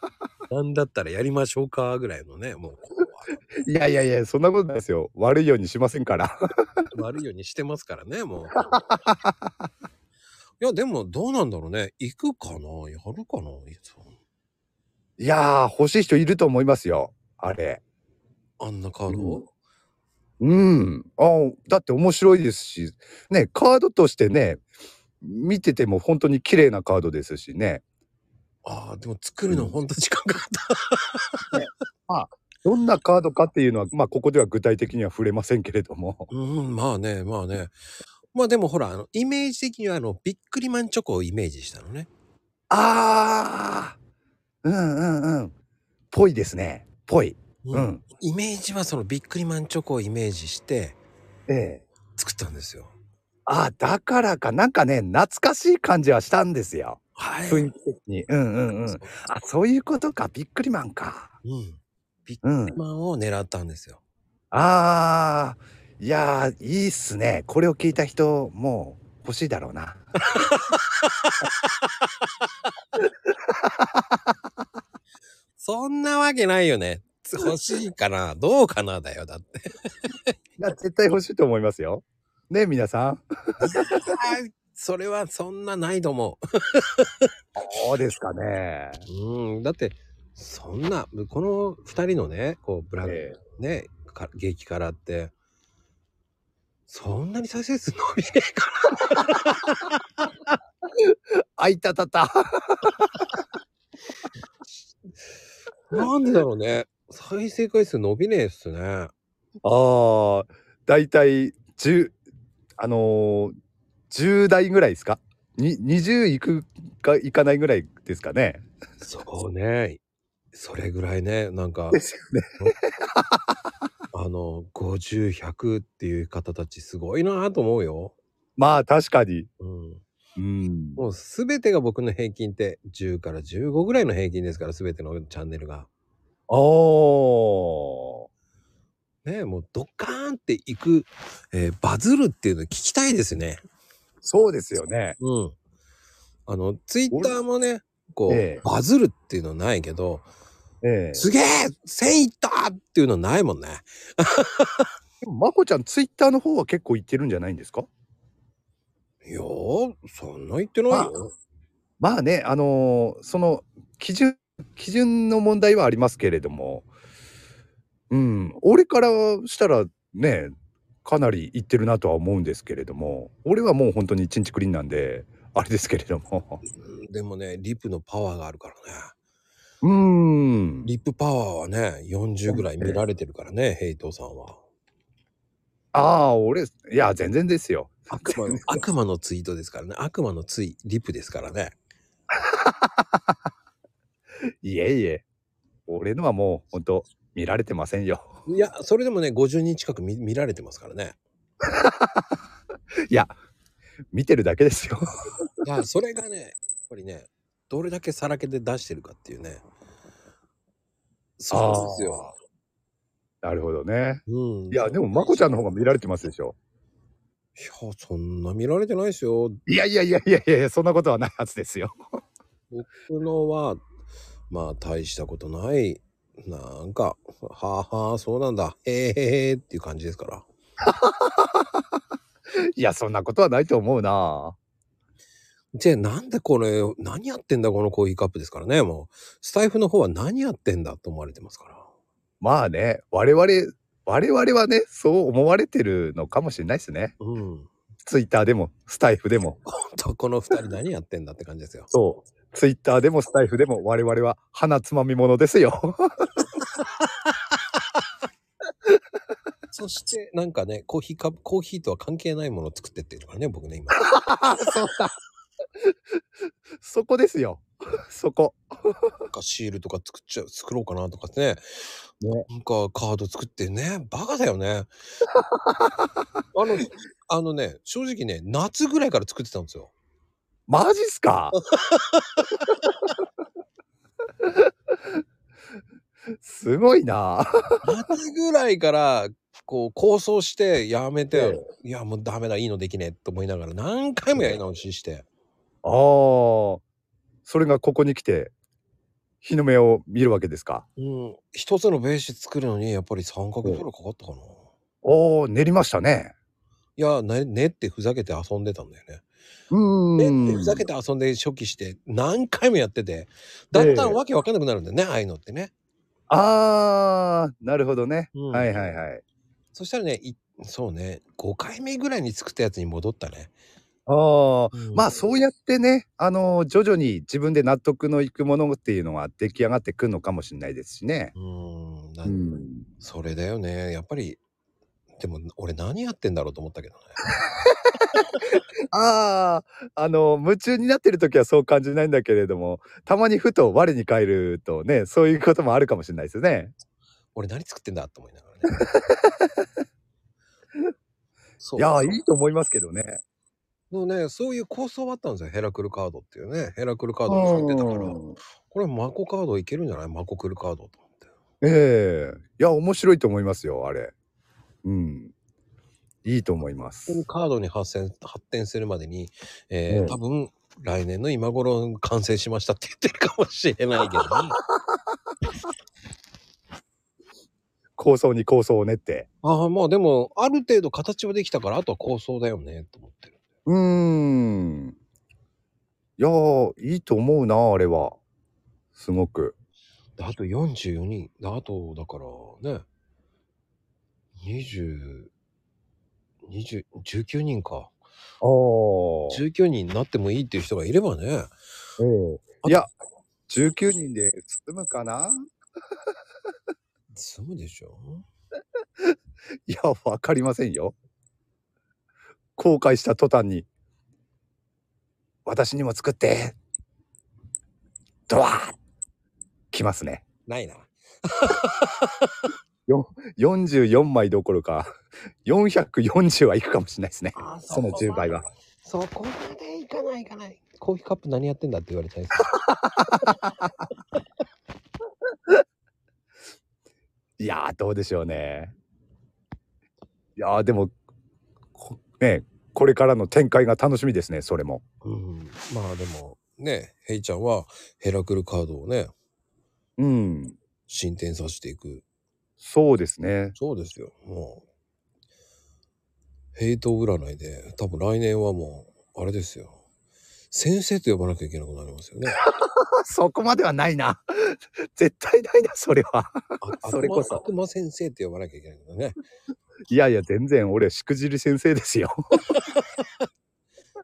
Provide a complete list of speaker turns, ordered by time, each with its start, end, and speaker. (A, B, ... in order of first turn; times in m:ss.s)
0:00.5-0:03.4 A
0:03.6-0:06.8 B
0:06.9-0:08.7 A
0:08.5-0:09.5 B
0:10.6-0:14.1 A
0:15.2-0:17.8 B
0:18.6-0:19.5 A
0:19.1-0:19.4 B
0:20.4-0:24.6 B
0:25.2-0:27.8 B
0:28.6-0:31.5 A
0:29.5-0:29.7 B
0:31.5-0:36.3 B
0:36.3-0:37.7 A
0:38.3-0:42.1 A
0:42.7-0:44.0 B
0:44.6-0:45.5 B
0:46.1-0:48.0 B
0:47.6-0:51.0 A
0:51.5-0:51.8 B
0:52.2-0:52.9 A
0:53.5-1:01.3 B
0:57.2-0:57.7 A
0:58.8-0:59.2 A
1:01.4-1:04.0 A
1:02.4-1:02.8 B
1:04.5-1:10.1 B
1:10.3-1:11.6 A
1:13.5-1:14.2 B
1:15.6-1:20.3 A
1:20.6-1:23.2 B
1:23.6-1:27.3 A
1:23.8-1:24.1 B
1:27.6-1:29.1 B
1:29.1-1:35.3 A
1:33.0-1:33.4 B
1:36.9-1:40.0 A
1:41.6-1:43.4 B
1:45.9-1:49.1 A
1:49.6-1:52.2 B
1:52.8-1:53.5 B
1:54.1-1:58.6 B
1:59.0-2:00.0 A
2:00.5-2:02.0 A
2:01.9-2:03.4 B
2:04.1-2:08.2 A
2:08.6-2:09.5 B
2:09.6-2:10.0 A
2:10.4-2:11.0 B
2:11.0-2:15.9 A
2:16.5-2:18.2 B
2:19.2-2:23.6 A
2:24.2-2:25.2 B
2:25.2-2:25.6 A
2:26.5-2:30.2 A
2:27.1-2:27.4 B
2:28.3-2:28.6 B
2:30.8-2:31.3 B
2:31.2-2:34.9 A
2:35.2-2:37.9 B
2:39.2-2:41.3 A
2:42.0-2:46.9 B
2:48.1-2:50.5 B
2:51.0-2:56.6 B
2:56.6-2:59.1 A
2:59.8-3:00.9 B
3:00.8-3:04.6 A
3:02.5-3:03.0 B
3:05.9-3:08.8 B
3:08.2-3:11.7 A
3:12.3-3:13.3 B
3:14.6-3:15.2 B
3:15.9-3:18.3 B
3:18.5-3:21.2 A
3:21.6-3:22.3 B
3:23.1-3:23.4 B
3:24.1-3:25.1 B
3:25.6-3:29.6 A
3:31.4-3:32.3 A
3:31.5-3:32.3 B
3:33.4-3:36.6 B
3:34.3-3:35.7 A
3:37.6-3:39.6 A
3:39.7-3:42.0 B
3:42.7-3:43.8 A
3:44.5-3:50.5 A
3:50.8-3:51.8 B
3:52.8-3:54.6 B
3:55.7-4:01.9 A
4:02.4-4:07.1 B
4:07.2-4:07.7 A
4:08.0-4:09.6 B
4:09.6-4:11.9 A
4:11.9-4:16.0 B
4:19.7-4:24.1 A
4:24.0-4:25.1 B
4:26.8-4:29.1 B
4:29.3-4:31.6 A
4:32.2-4:32.5 B
4:32.5-4:34.9 A
4:35.3-4:36.1 B
4:36.5-4:39.9 A
4:40.7-4:41.6 B
4:41.5-4:42.6 A
4:44.4-4:44.7 B
4:46.4-4:47.7 B
4:47.8-4:55.2 A
4:51.3-4:51.6 B
4:54.4-4:54.6 B
4:55.8-4:56.8 B
4:57.4-4:58.5 B
4:59.4-5:00.8 B
5:01.0-5:04.6 A
5:05.0-5:06.3 B
5:07.0-5:09.2 A
5:09.7-5:10.9 B
5:10.2-5:15.7 A
5:13.7-5:14.2 B
5:16.3-5:19.2 B
5:18.3-5:18.9 A
5:19.7-5:23.5 A
5:24.1-5:31.3 B
5:24.7-5:25.1 A
5:31.4-5:32.4 A
5:32.2-5:32.9 B
5:33.0-5:34.4 A
5:35.2-5:37.2 A
5:37.4-5:38.2 B
5:38.9-5:46.7 B
5:47.4-5:48.7 A
5:48.7-5:49.6 B
5:51.6-5:52.1 A
5:51.8-5:53.2 B
5:53.9-6:01.3 A
5:57.3-5:58.4 B
6:01.6-6:04.1 B
6:04.8-6:05.3 B
6:06.2-6:07.2 B
6:07.1-6:14.6 A
6:09.9-6:10.2 B
6:14.7-6:15.0 B
6:18.0-6:19.3 B
6:19.4-6:23.4 A
6:23.6-6:25.0 B
6:26.2-6:28.2 B
6:29.0-6:29.5 B
6:30.2-6:32.9 A
6:34.4-6:35.3 A
6:36.4-6:37.9 A
6:38.4-6:39.4 B
6:39.3-6:41.5 A
6:42.0-6:42.9 B
6:43.5-6:45.5 B
6:47.1-6:48.2 A
6:49.7-6:51.0 B
6:52.6-6:53.7 B
6:55.5-6:56.6 B
6:58.3-6:58.8 B
6:59.7-7:00.2 B
7:00.5-7:02.4 A
7:02.9-7:04.9 B
7:05.4-7:08.5 B
7:07.4-7:12.5 A
7:12.5-7:13.7 B
7:17.4-7:18.7 B
7:20.4-7:20.9 B
7:21.8-7:24.8 B
7:25.0-7:29.1 A
7:30.0-7:30.6 B
7:30.9-7:32.0 A
7:32.6-7:33.6 B
7:33.6-7:34.6 A
7:36.6-7:39.8 A
7:40.5-7:42.4 A
7:42.4-7:47.4 B
7:46.6-7:49.2 A
7:49.9-7:52.6 B
7:52.5-7:53.2 A